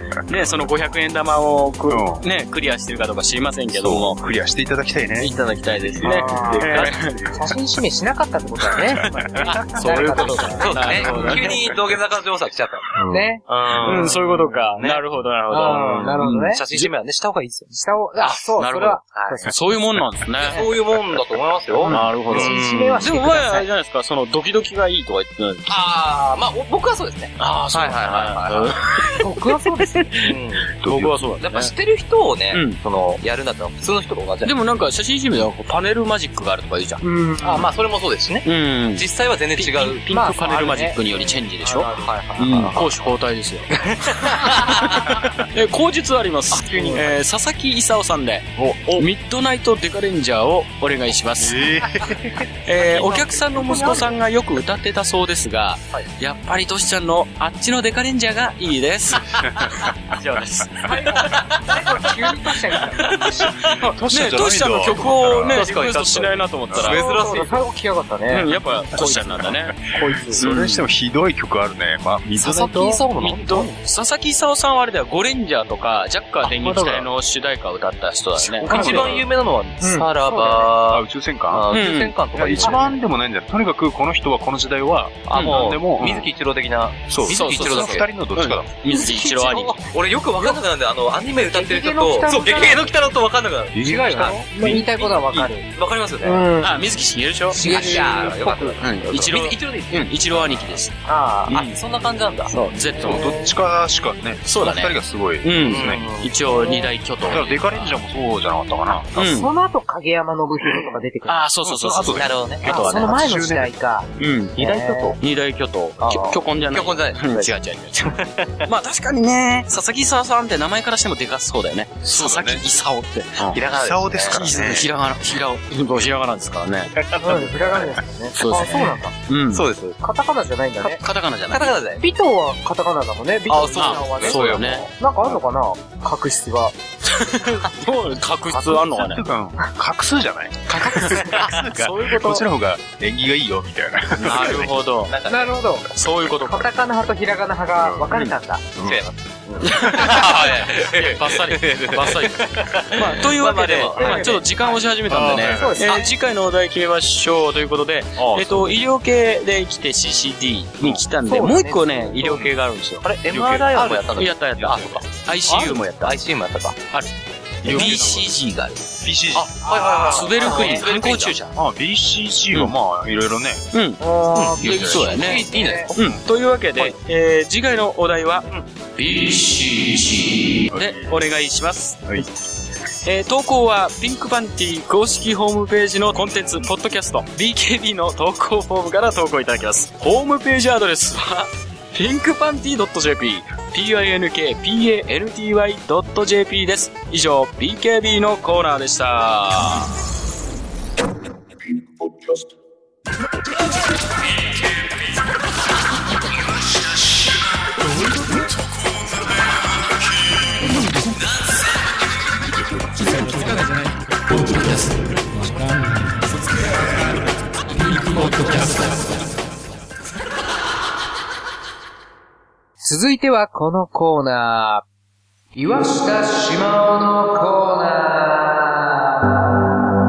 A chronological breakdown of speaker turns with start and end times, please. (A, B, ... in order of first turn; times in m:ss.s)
0:00.3-0:04.2 A
0:01.9-0:02.2 B
0:03.7-0:06.2 B
0:05.2-0:07.2 A
0:06.0-0:07.4 C
0:06.0-0:06.7 D
0:07.3-0:11.2 D
0:09.3-0:10.0 B
0:09.4-0:11.7 A
0:10.6-0:15.0 C
0:13.0-0:13.3 B
0:13.1-0:14.2 D
0:13.8-0:16.3 A
0:15.5-0:16.6 D
0:15.6-0:18.4 C
0:17.7-0:19.5 D
0:18.6-0:20.6 A
0:19.1-0:19.5 C
0:20.4-0:23.1 C
0:21.8-0:23.7 D
0:21.9-0:25.7 A
0:25.7-0:28.8 C
0:27.4-0:29.3 A
0:29.2-0:30.1 D
0:29.8-0:31.7 A
0:30.2-0:30.7 C
0:30.8-0:31.3 B
0:31.4-0:34.5 C
0:32.5-0:32.8 A
0:34.4-0:37.0 A
0:37.0-0:37.7 D
0:37.4-0:40.0 C
0:38.4-0:51.6 A
0:40.1-0:42.0 D
0:41.7-0:43.0 C
0:43.9-0:45.1 C
0:46.5-0:47.1 C
0:46.7-0:47.0 D
0:48.6-0:49.0 B
0:51.4-0:52.5 B
0:52.6-1:01.4 A
0:53.0-0:54.0 C
0:53.5-0:54.0 D
0:59.4-0:59.7 B
1:00.8-1:03.0 D
1:03.0-1:05.7 B
1:03.0-1:07.0 A
1:05.5-1:07.6 C
1:06.9-1:10.4 D
1:08.3-1:09.8 A
1:08.9-1:13.0 B
1:10.4-1:10.9 A
1:12.4-1:13.7 C
1:13.2-1:19.2 A
1:16.4-1:17.1 B
1:18.5-1:19.2 B
1:18.6-1:22.9 C
1:19.8-1:20.7 D
1:20.9-1:21.7 B
1:21.7-1:22.2 A
1:22.3-1:26.3 B
1:22.6-1:22.9 D
1:25.3-1:28.1 C
1:25.3-1:25.6 A
1:27.1-1:28.7 B
1:27.3-1:29.8 A
1:28.9-1:29.6 D
1:29.4-1:36.4 C
1:31.5-1:32.8 D
1:33.7-1:35.5 B
1:33.8-1:35.7 D
1:36.2-1:36.8 D
1:36.6-1:40.9 A
1:37.5-1:38.8 D
1:37.6-1:42.5 C
1:41.1-1:41.5 D
1:41.5-1:41.8 A
1:42.5-1:43.3 A
1:43.0-1:46.1 B
1:43.1-1:43.5 D
1:44.4-1:47.8 A
1:45.6-1:46.3 C
1:47.2-1:49.4 B
1:49.1-1:49.5 A
1:49.2-1:51.4 D
1:51.3-1:53.1 A
1:51.6-1:53.7 B
1:52.2-1:52.6 C
1:52.6-1:54.1 D
1:54.2-1:54.6 A
1:54.6-1:55.2 C
1:54.6-1:55.2 D
1:55.2-2:03.6 A
1:56.0-1:57.5 C
1:58.0-1:58.7 C
2:02.0-2:02.6 B
2:03.5-2:04.6 C
2:03.5-2:04.9 B
2:04.3-2:06.9 A
2:06.9-2:07.9 C
2:07.2-2:09.1 D
2:08.4-2:09.7 A
2:09.5-2:10.0 C
2:10.0-2:11.0 D
2:10.8-2:11.8 A
2:11.5-2:12.0 C
2:12.0-2:16.7 D
2:13.5-2:14.9 C
2:13.8-2:14.9 A
2:17.0-2:19.2 A
2:18.5-2:24.7 B
2:20.8-2:21.3 D
2:20.8-2:22.4 A
2:24.2-2:25.1 A
2:25.0-2:25.6 C
2:25.3-2:25.9 D
2:25.9-2:26.7 A
2:26.4-2:28.6 D
2:27.8-2:28.1 B
2:28.8-2:29.0 B
2:28.8-2:34.8 C
2:29.6-2:46.2 A
2:34.0-2:34.4 D
2:35.1-2:35.8 B
2:35.4-2:36.0 D
2:38.2-2:38.8 B
2:40.8-2:41.1 B
2:41.3-2:42.1 D
2:42.2-2:42.5 B
2:43.0-2:46.8 C
2:43.3-2:43.7 B
2:47.6-2:48.3 B
2:47.6-2:48.7 A
2:47.7-2:48.8 C
2:49.0-2:49.7 B
2:49.3-2:51.5 C
2:49.9-2:50.6 D
2:50.0-2:51.4 A
2:51.6-2:53.7 B
2:53.7-2:54.0 A
2:54.0-2:55.9 D
2:54.3-2:56.0 C
2:54.6-3:02.0 A
2:54.6-2:55.2 B
3:00.7-3:01.1 B
3:03.0-3:19.9 A
3:42.8-3:44.8 D
3:45.5-3:49.1 D